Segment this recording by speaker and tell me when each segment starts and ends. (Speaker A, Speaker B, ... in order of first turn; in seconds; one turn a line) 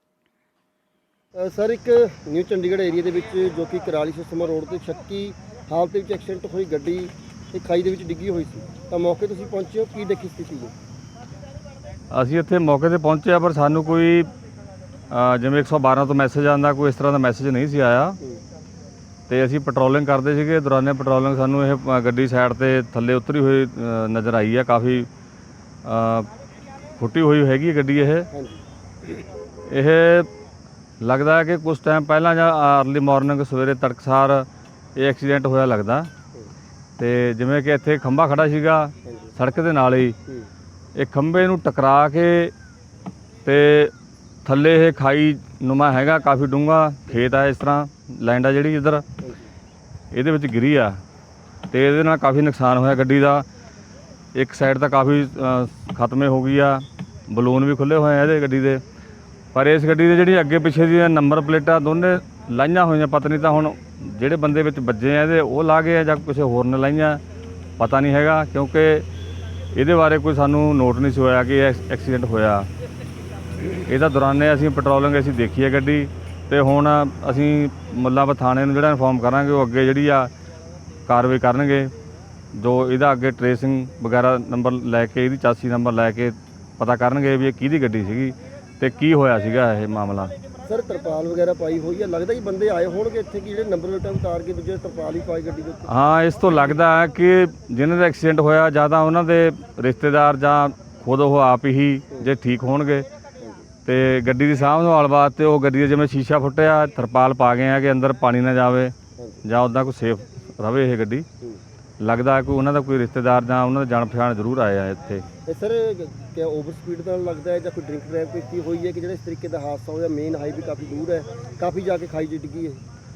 Speaker A: 1.3-10.7
Speaker B: 12.1-14.3
Speaker B: 15.1-18.2
Speaker B: 19.3-25.1
Speaker B: 25.8-26.3
Speaker B: 27.0-28.3
Speaker A: 28.3-28.6
Speaker B: 29.7-30.3
Speaker B: 31.0-36.1
Speaker B: 37.0-40.1
Speaker A: 39.0-39.3
Speaker B: 40.9-42.5
Speaker B: 43.4-43.9
Speaker B: 44.4-49.0
Speaker A: 49.2-49.5
Speaker B: 50.1-51.0
Speaker B: 51.7-53.5
Speaker B: 54.3-58.8
Speaker B: 59.5-67.2
Speaker B: 67.8-69.0
Speaker B: 69.7-72.7
Speaker B: 73.8-80.3
Speaker B: 81.1-81.9
Speaker B: 82.5-90.3
Speaker A: 90.7-95.9
Speaker B: 95.9-103.0
Speaker A: 103.4-103.7
Speaker B: 103.8-111.2
Speaker A: 109.2-109.4
Speaker B: 112.0-115.2
Speaker A: 115.5-122.8